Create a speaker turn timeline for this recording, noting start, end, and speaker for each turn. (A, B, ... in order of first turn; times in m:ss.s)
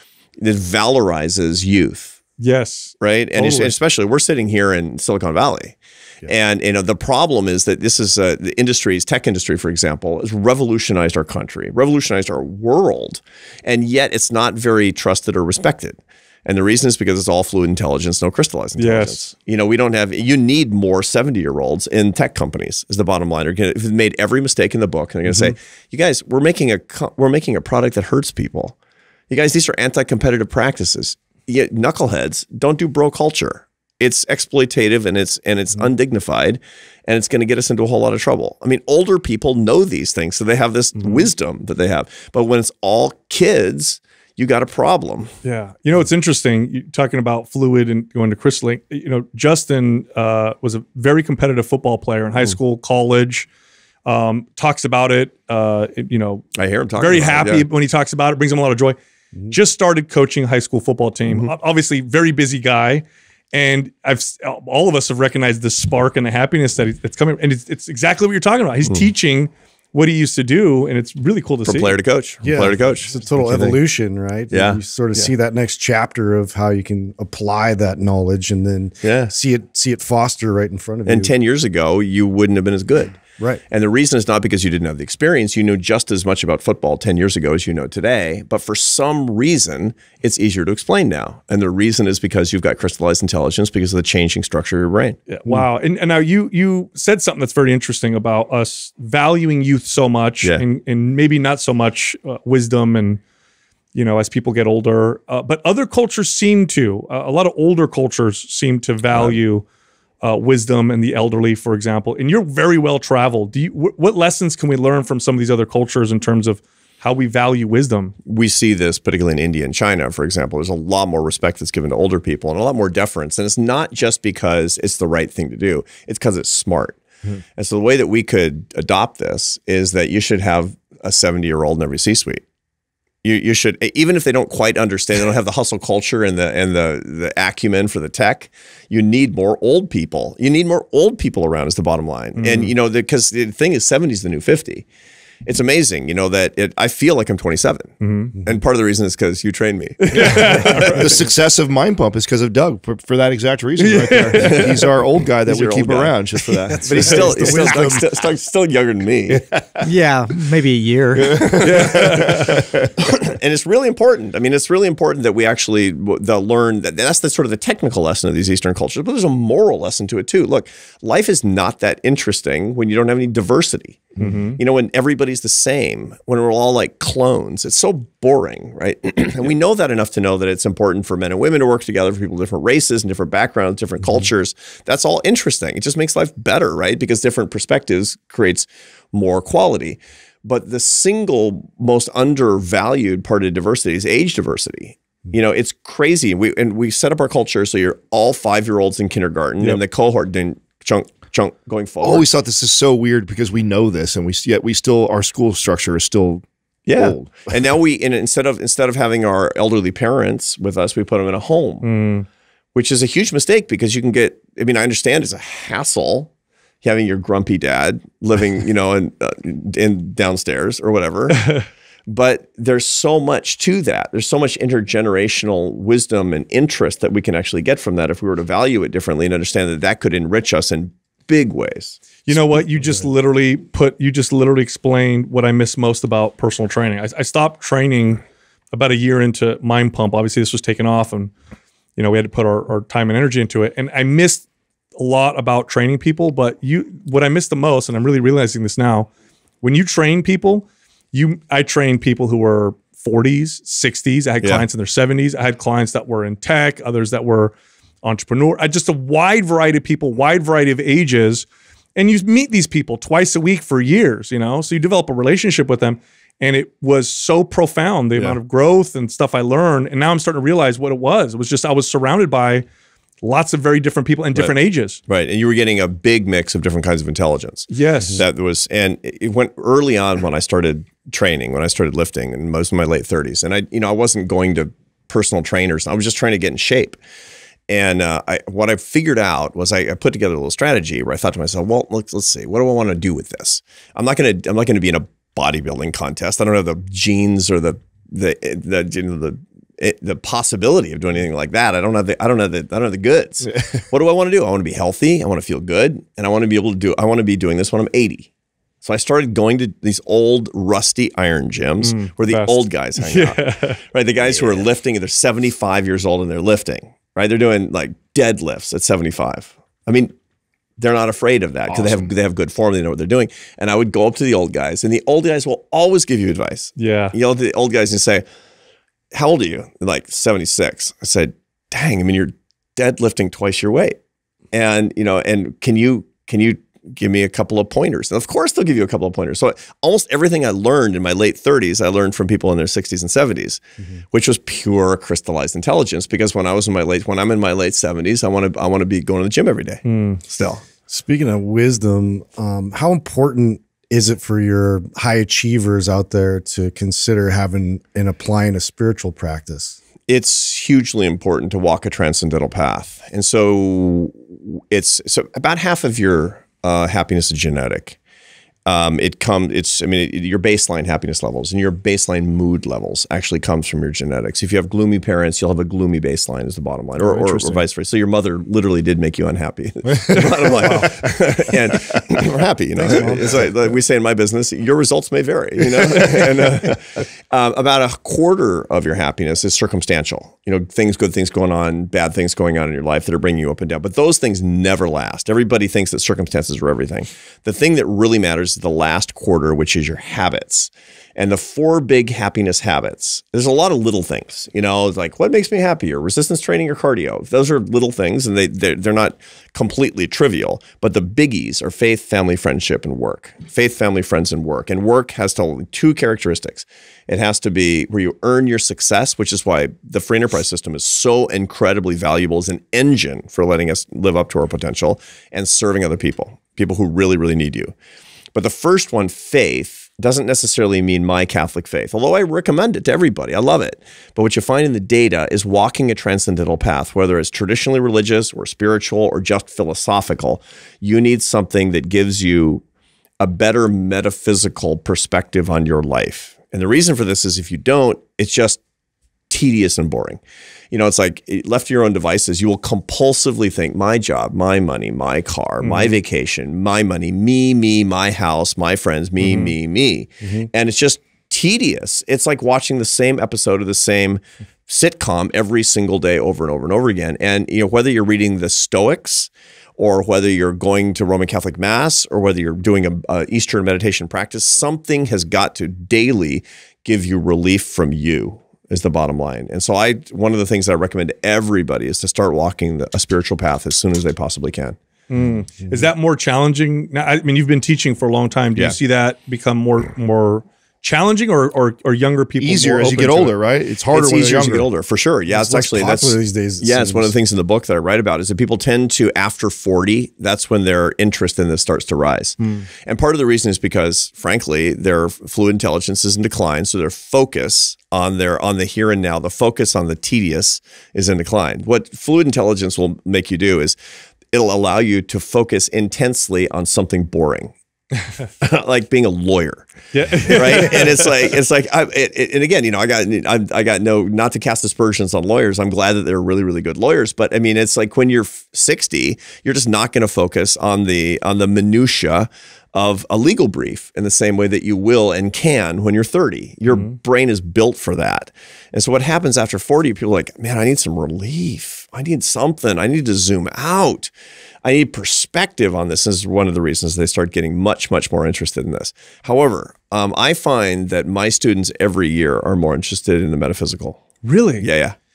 0:00.4-0:02.2 A
0:02.4-0:03.8 B
0:03.0-0:28.8 A
0:18.8-0:19.2 B
0:29.3-0:45.3 A
0:41.0-0:41.3 B
0:45.4-0:53.5 B
0:54.0-0:59.0 B
0:56.6-0:57.7 A
0:59.5-1:12.0 B
1:11.6-1:13.8 A
1:12.4-1:21.3 C
1:14.5-1:15.3 A
1:19.0-1:19.3 A
1:21.0-1:35.6 A
1:35.3-1:43.2 B
1:43.9-1:49.6 B
1:49.1-1:49.4 A
1:50.2-1:58.2 B
1:58.2-2:07.0 A
2:07.6-2:12.4 A
2:13.2-2:24.8 A
2:22.4-2:22.7 B
2:25.4-2:31.1 A
2:28.0-2:28.4 B
2:30.0-2:31.2 B
2:30.3-2:37.9 D
2:33.8-2:34.9 B
2:34.3-2:34.8 A
2:35.4-2:39.4 A
2:36.7-2:38.1 C
2:39.8-2:42.0 C
2:41.3-2:42.9 D
2:41.6-2:42.6 B
2:43.0-3:22.3 A
2:54.2-2:54.6 B
3:22.0-3:26.4 D
3:26.8-3:31.9 A
3:27.0-3:27.3 D
3:31.8-3:32.3 B
3:32.7-3:36.3 A
3:36.8-3:41.5 A
3:41.4-3:41.6 B
3:42.1-3:52.4 A
3:52.2-3:58.2 B
3:58.7-4:01.3 B
4:02.0-4:04.4 B
4:05.0-4:09.1 B
4:09.6-4:32.6 B
4:33.2-4:35.0 B
4:35.1-4:47.0 A
4:37.7-4:38.2 B
4:47.7-5:08.3 A
5:08.8-5:20.1 A
5:11.8-5:13.8 B
5:20.8-5:28.2 A
5:21.7-5:22.1 D
5:26.8-5:27.1 B
5:29.1-5:34.0 A
5:34.5-5:43.6 A
5:44.1-5:50.6 A
5:49.8-5:50.2 B
5:50.9-5:59.8 C
6:00.1-6:08.0 A
6:08.6-7:07.7 A
6:17.0-6:17.6 D
6:22.9-6:23.2 C
7:08.3-7:22.6 A
7:23.2-7:28.6 A
7:29.3-7:30.2 A
7:30.7-8:04.8 A
7:35.6-7:36.0 B
7:39.2-7:39.5 B
7:40.2-7:40.5 C
8:05.1-8:13.4 B
8:12.4-8:14.7 D
8:13.9-8:33.8 A
8:15.3-8:17.1 C
8:34.3-8:37.5 A
8:38.4-8:39.7 A
8:39.9-8:41.3 B
8:40.2-9:04.1 A
9:04.6-9:14.0 A
9:14.2-9:14.7 B
9:14.6-9:15.0 A